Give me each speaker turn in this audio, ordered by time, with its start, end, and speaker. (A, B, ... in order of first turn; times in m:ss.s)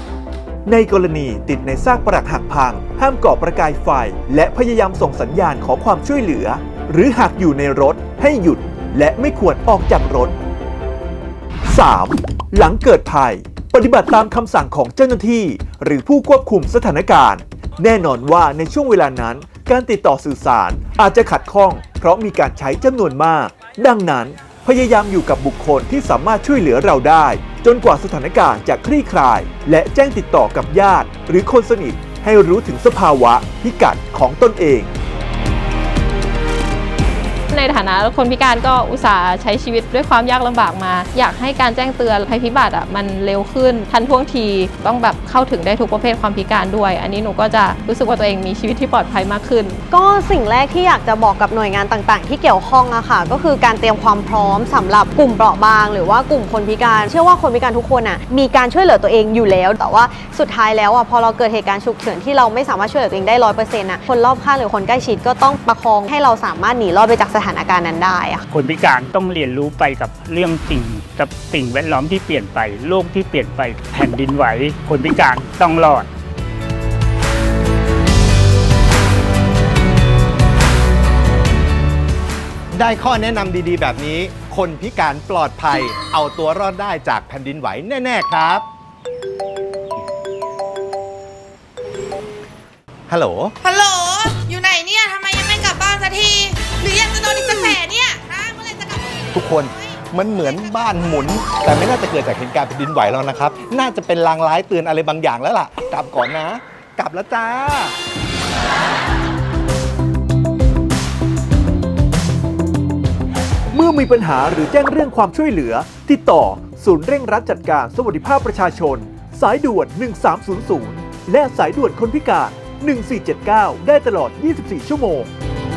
0:00.6-0:10.4 A
0:11.7-0:34.9 A
0:37.5-0:49.8 B
0:49.9-1:08.4 C
1:08.5-1:16.1 D
1:22.7-1:28.6 E
1:33.1-1:33.6 E
1:33.6-1:39.9 F
1:39.3-1:47.9 E
1:53.7-2:05.3 A